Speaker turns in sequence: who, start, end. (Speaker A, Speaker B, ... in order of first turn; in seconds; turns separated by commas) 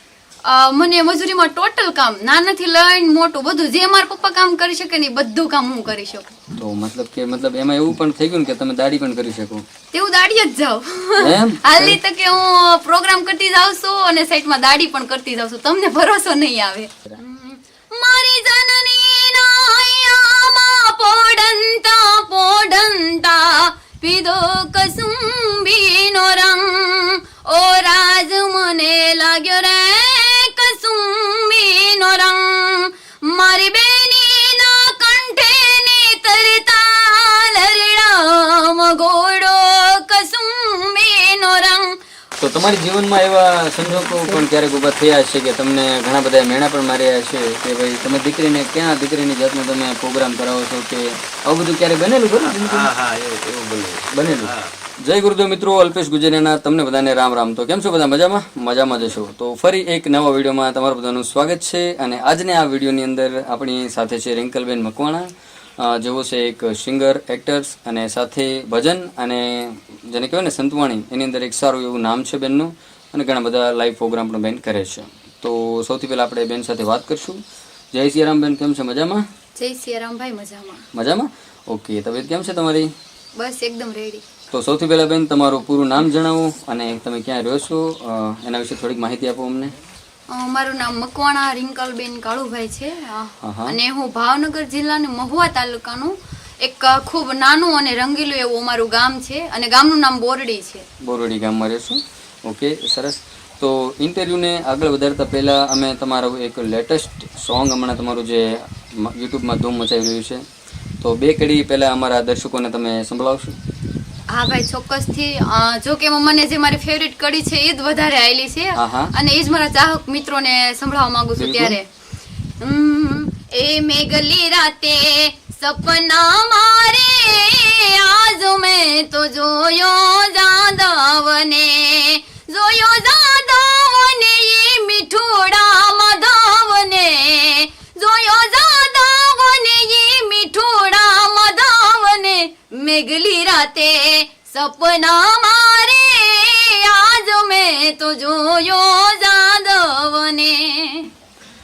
Speaker A: 0.5-6.3, Speaker B: 6.5-9.6, Speaker A: 9.9-42.0, Speaker B: 11.2-12.0, Speaker B: 42.4-52.9, Speaker C: 52.4-54.8, Speaker B: 54.1-77.4, Speaker B: 77.9-79.2, Speaker A: 79.6-80.8, Speaker B: 80.9-82.9, Speaker A: 83.3-84.2, Speaker B: 84.5-89.7, Speaker A: 90.3-100.8, Speaker B: 93.4-93.8, Speaker B: 101.0-110.4, Speaker B: 111.0-113.5, Speaker A: 114.3-121.9, Speaker B: 118.8-119.1, Speaker B: 121.3-121.8, Speaker A: 122.6-151.1